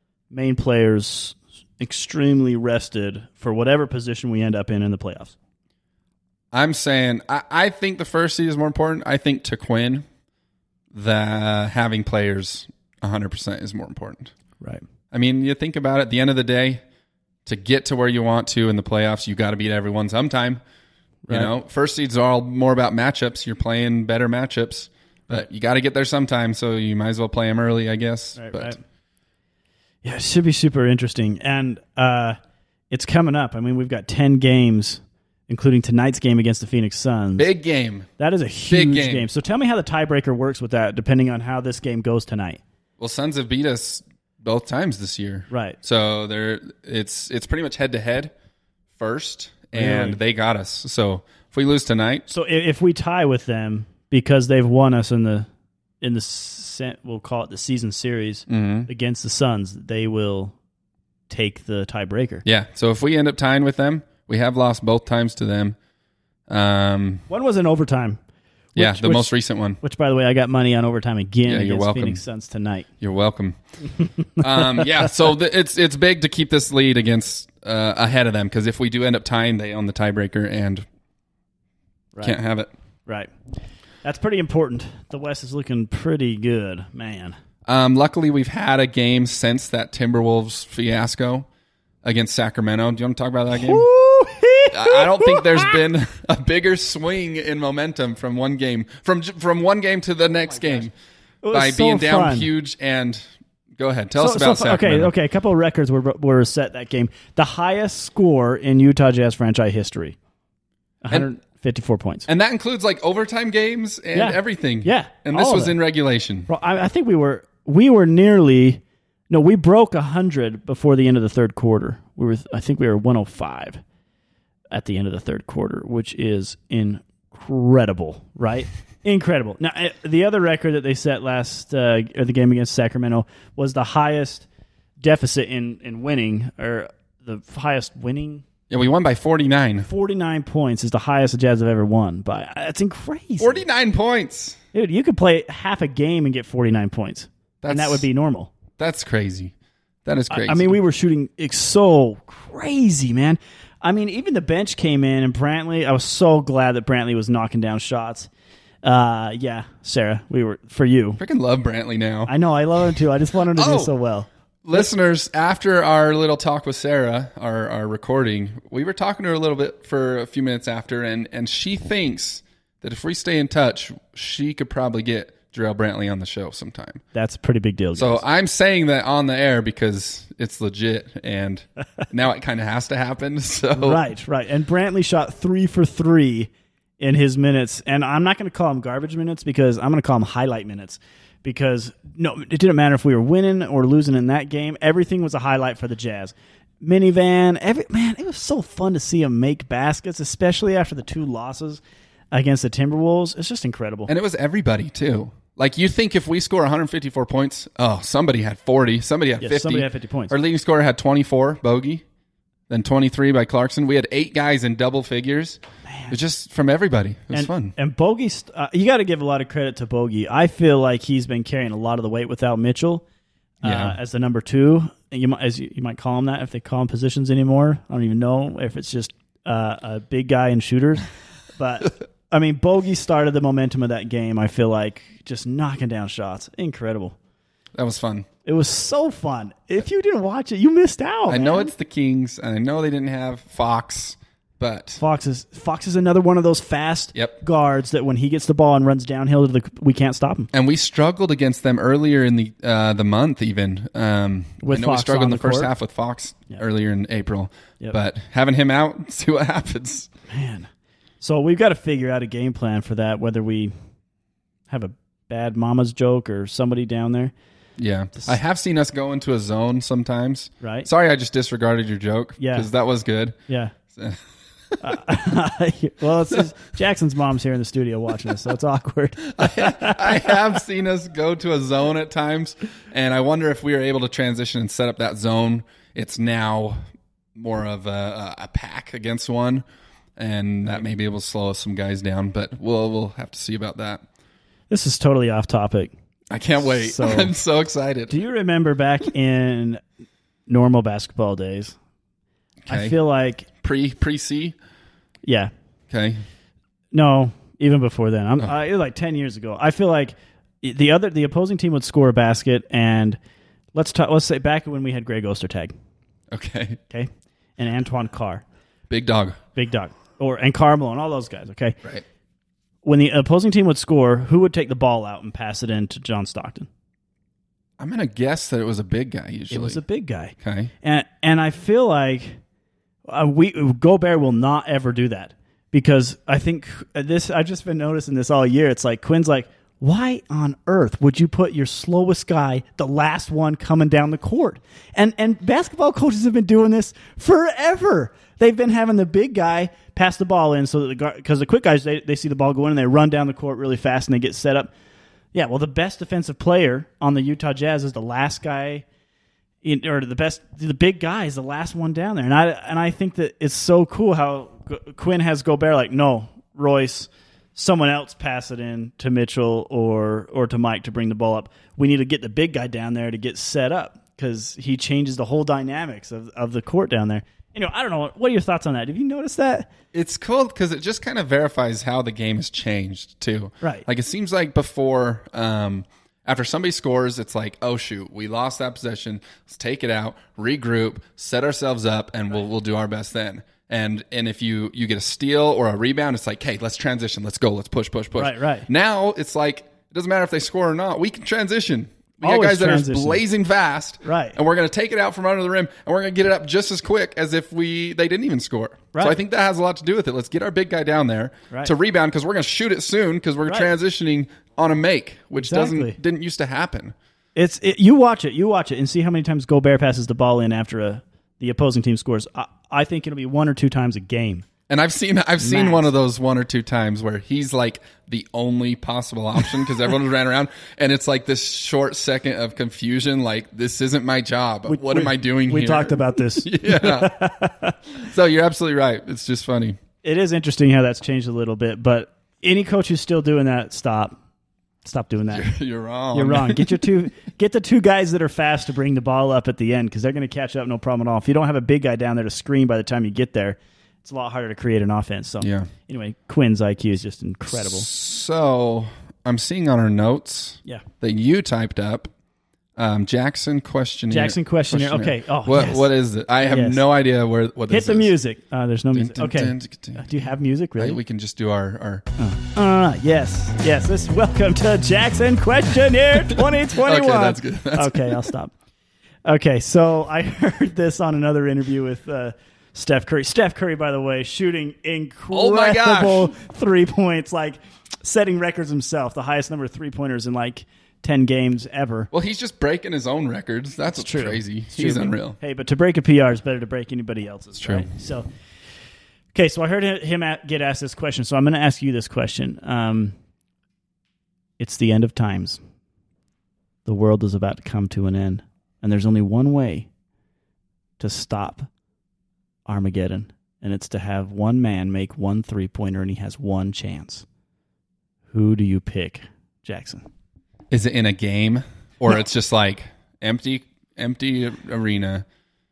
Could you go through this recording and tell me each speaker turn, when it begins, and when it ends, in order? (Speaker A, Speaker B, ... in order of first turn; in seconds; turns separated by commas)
Speaker A: 0.3-5.3, Speaker B: 6.5-10.1, Speaker B: 10.9-14.3, Speaker B: 15.1-16.8, Speaker B: 17.4-20.6, Speaker B: 21.3-28.8, Speaker A: 28.4-28.8, Speaker A: 30.0-32.4, Speaker A: 32.9-37.5, Speaker B: 37.4-38.1, Speaker A: 38.2-42.6, Speaker B: 38.7-39.2, Speaker B: 43.0-48.3, Speaker A: 45.5-45.8, Speaker B: 49.0-52.2, Speaker A: 49.7-50.2, Speaker A: 52.3-55.5, Speaker A: 56.0-60.5, Speaker B: 58.5-58.9, Speaker A: 61.3-62.4, Speaker B: 62.4-65.8, Speaker B: 66.5-67.2, Speaker A: 67.3-68.2, Speaker A: 68.7-69.3, Speaker B: 68.8-69.8, Speaker A: 69.8-72.9, Speaker B: 71.5-72.2, Speaker B: 73.0-73.6, Speaker A: 74.4-75.0, Speaker B: 74.4-80.8, Speaker B: 82.2-82.7, Speaker A: 83.0-83.3, Speaker A: 84.0-87.3, Speaker B: 87.7-91.5, Speaker B: 92.0-93.9, Speaker A: 93.5-95.8, Speaker B: 94.7-100.9, Speaker A: 100.6-100.9, Speaker A: 101.4-102.5, Speaker B: 101.5-103.2, Speaker B: 103.8-105.1, Speaker A: 104.2-110.2, Speaker A: 111.0-112.3, Speaker B: 112.3-116.5, Speaker A: 114.1-115.8, Speaker A: 116.5-123.8, Speaker A: 124.7-134.4, Speaker A: 135.0-138.4, Speaker B: 138.7-139.9, Speaker A: 139.8-143.6, Speaker B: 143.4-144.6, Speaker A: 144.7-148.5, Speaker B: 147.6-148.0, Speaker B: 148.8-149.5, Speaker B: 150.0-150.8, Speaker A: 150.3-158.3, Speaker A: 158.8-161.2, Speaker B: 161.2-162.3, Speaker A: 162.3-164.9, Speaker B: 163.5-163.9, Speaker B: 164.6-177.0, Speaker A: 177.1-178.2, Speaker B: 177.9-184.0, Speaker A: 183.7-204.1, Speaker B: 204.1-212.0, Speaker A: 209.4-210.3, Speaker B: 212.7-217.7, Speaker A: 215.9-216.1, Speaker A: 217.3-223.0, Speaker A: 223.6-237.2, Speaker B: 223.6-224.0, Speaker B: 237.7-238.3, Speaker A: 238.4-241.7, Speaker B: 241.3-245.0, Speaker A: 245.0-250.5, Speaker B: 250.5-260.1, Speaker A: 254.6-255.7, Speaker A: 260.3-260.7, Speaker A: 261.2-263.7, Speaker A: 264.7-267.3, Speaker B: 267.8-273.4, Speaker A: 270.6-270.9, Speaker A: 272.4-272.7, Speaker A: 273.5-273.7, Speaker B: 273.9-274.2, Speaker A: 274.8-280.4, Speaker B: 279.4-286.8, Speaker B: 287.3-289.6, Speaker B: 290.2-294.0, Speaker A: 294.7-295.9, Speaker B: 296.3-298.2, Speaker A: 296.6-297.3, Speaker A: 298.1-299.8, Speaker A: 300.5-301.8, Speaker B: 302.7-302.9, Speaker A: 302.7-303.5, Speaker B: 303.6-304.6, Speaker A: 305.2-305.5, Speaker B: 305.9-306.2, Speaker A: 306.9-313.2, Speaker A: 313.7-315.7, Speaker B: 316.3-316.8, Speaker A: 316.9-318.4, Speaker B: 318.9-319.4, Speaker A: 319.6-321.8, Speaker A: 322.8-326.7, Speaker B: 327.8-329.8, Speaker A: 329.5-332.4, Speaker B: 330.4-330.7, Speaker A: 333.1-354.7, Speaker A: 355.3-358.8, Speaker A: 359.6-379.7, Speaker B: 379.9-416.9, Speaker A: 383.6-383.9, Speaker A: 398.2-398.7, Speaker A: 402.2-403.2, Speaker A: 404.0-404.4, Speaker A: 415.4-416.0, Speaker A: 417.4-424.4, Speaker B: 424.7-437.2, Speaker A: 425.4-425.9, Speaker A: 434.7-437.8, Speaker B: 437.9-439.8, Speaker A: 440.0-444.2, Speaker A: 444.8-445.5, Speaker B: 445.3-446.9, Speaker A: 446.1-457.9, Speaker B: 455.4-455.7, Speaker B: 457.5-462.1, Speaker B: 462.8-468.1, Speaker A: 464.1-465.9, Speaker A: 466.4-466.8, Speaker A: 467.7-471.0, Speaker B: 468.9-470.0, Speaker B: 470.8-472.1, Speaker A: 472.2-478.5, Speaker B: 476.3-478.2, Speaker A: 479.2-492.1, Speaker B: 485.3-486.3, Speaker B: 492.1-495.4, Speaker A: 493.9-498.3, Speaker B: 497.6-497.9, Speaker A: 499.3-503.1, Speaker A: 504.6-505.6, Speaker A: 506.8-509.9, Speaker A: 511.0-511.7, Speaker A: 512.6-517.2, Speaker A: 518.3-520.0, Speaker B: 520.7-525.2